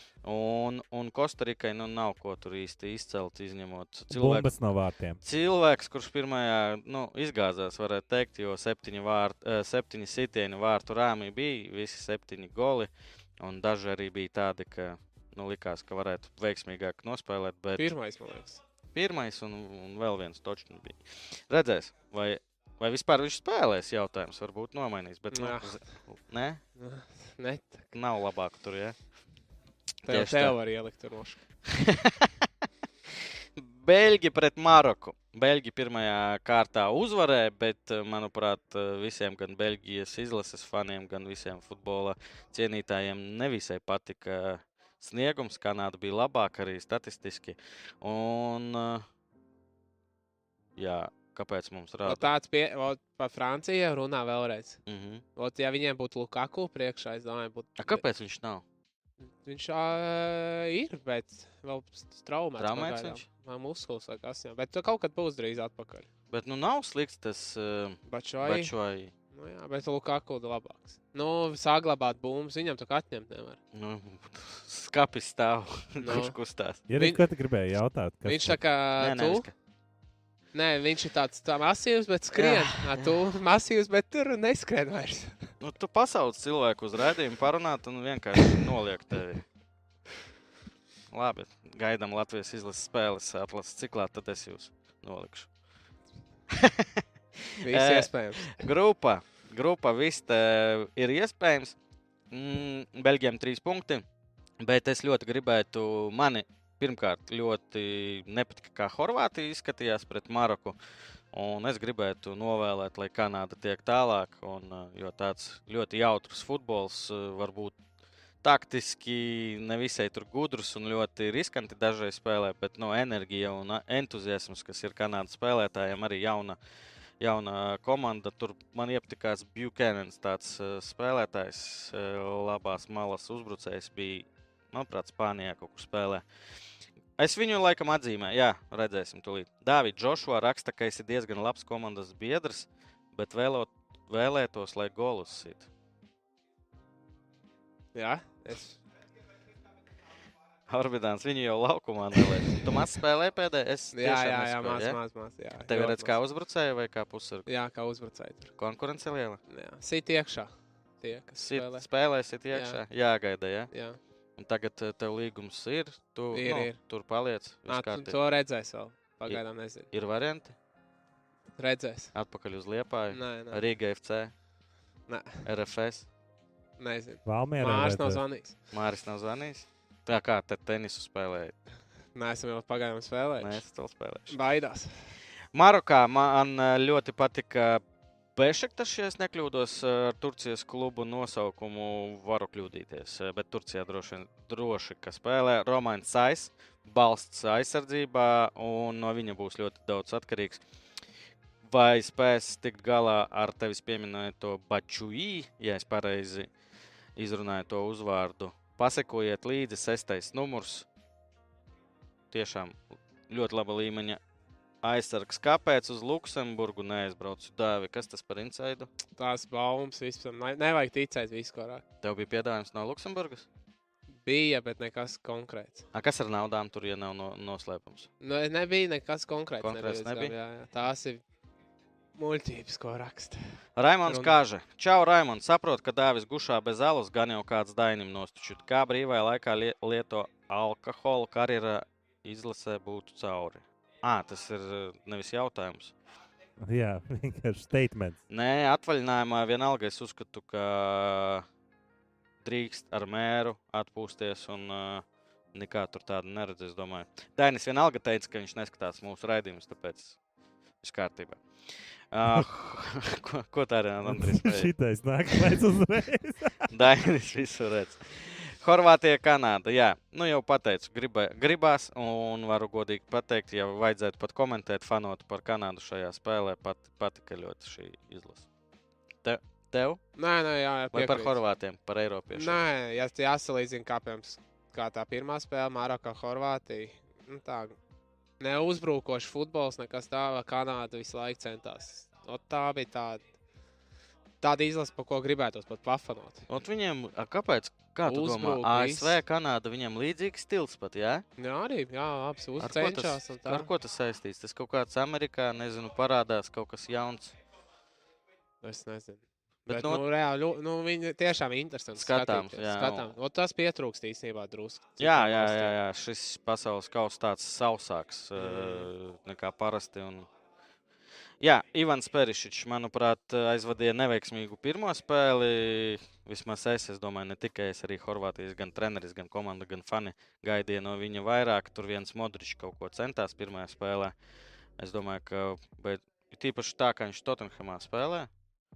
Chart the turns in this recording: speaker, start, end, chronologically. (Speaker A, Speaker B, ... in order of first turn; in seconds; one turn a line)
Speaker A: 0.2-4.5
Speaker B: 4.1-5.2
Speaker A: 5.2-17.9
Speaker C: 17.8-18.6
Speaker A: 18.9-26.6
Speaker C: 25.3-25.8
Speaker C: 26.8-27.9
Speaker A: 27.9-28.9
Speaker C: 30.0-31.4
Speaker A: 30.1-30.6
Speaker A: 31.7-32.4
Speaker A: 33.6-49.0
Speaker A: 50.8-52.3
Speaker C: 52.0-54.8
Speaker A: 54.9-55.2
Speaker C: 55.4-58.0
Speaker A: 57.8-58.6
Speaker C: 59.4-66.1
Speaker A: 62.6-63.2
Speaker A: 66.3-69.1
Speaker C: 68.1-68.7
Speaker C: 69.3-73.6
Speaker A: 73.7-76.8
Speaker C: 76.0-76.4
Speaker B: 76.9-78.6
Speaker C: 77.0-77.2
Speaker C: 78.2-79.5
Speaker A: 79.0-79.5
Speaker C: 80.5-85.5
Speaker A: 82.3-83.1
Speaker A: 85.6-89.4
Speaker A: 91.1-95.5
Speaker A: 96.5-97.0
Speaker C: 97.6-98.6
Speaker A: 97.6-101.8
Speaker A: 102.3-104.0
Speaker A: 104.6-110.8
Speaker A: 111.3-117.8
Speaker A: 118.4-126.6
Speaker A: 127.2-136.2
Speaker A: 137.2-145.7
Speaker C: 147.9-148.8
Speaker A: 150.7-155.0
Speaker C: 153.9-156.2
Speaker A: 155.7-157.5
Speaker C: 157.5-158.5
Speaker A: 158.6-159.4
Speaker C: 159.5-161.8
Speaker A: 161.3-163.7
Speaker C: 162.5-162.8
Speaker C: 163.7-164.0
Speaker A: 164.4-168.2
Speaker C: 166.3-166.8
Speaker C: 167.7-169.9
Speaker A: 169.3-170.6
Speaker C: 171.6-172.1
Speaker A: 172.1-174.3
Speaker C: 173.1-173.6
Speaker C: 175.1-175.4
Speaker A: 175.4-176.1
Speaker C: 176.8-178.6
Speaker B: 177.2-178.2
Speaker A: 178.7-181.6
Speaker C: 182.1-183.6
Speaker A: 183.4-184.3
Speaker C: 184.3-185.1
Speaker A: 185.5-187.8
Speaker A: 188.3-200.6
Speaker A: 201.6-206.5
Speaker A: 207.2-210.9
Speaker A: 212.3-214.2
Speaker A: 214.8-218.9
Speaker C: 219.2-221.8
Speaker A: 222.0-223.4
Speaker C: 224.2-225.8
Speaker A: 225.9-228.1
Speaker C: 228.2-231.2
Speaker A: 229.6-230.3
Speaker C: 232.2-233.4
Speaker A: 233.8-245.9
Speaker C: 234.1-234.3
Speaker B: 246.6-248.2
Speaker A: 248.3-251.4
Speaker A: 252.4-260.2
Speaker A: 260.8-261.4
Speaker A: 262.1-264.7
Speaker B: 264.0-266.7
Speaker A: 266.7-278.4
Speaker A: 279.2-280.0
Speaker C: 280.1-281.4
Speaker A: 280.9-282.6
Speaker C: 282.3-287.8
Speaker C: 288.4-293.2
Speaker C: 294.4-296.5
Speaker A: 296.5-301.2
Speaker C: 298.1-299.2
Speaker C: 301.4-303.7
Speaker A: 302.6-307.3
Speaker C: 308.6-315.7
Speaker A: 309.7-310.0
Speaker A: 311.9-313.1
Speaker A: 315.0-320.3
Speaker C: 318.4-318.9
Speaker A: 321.4-334.1
Speaker A: 334.8-338.3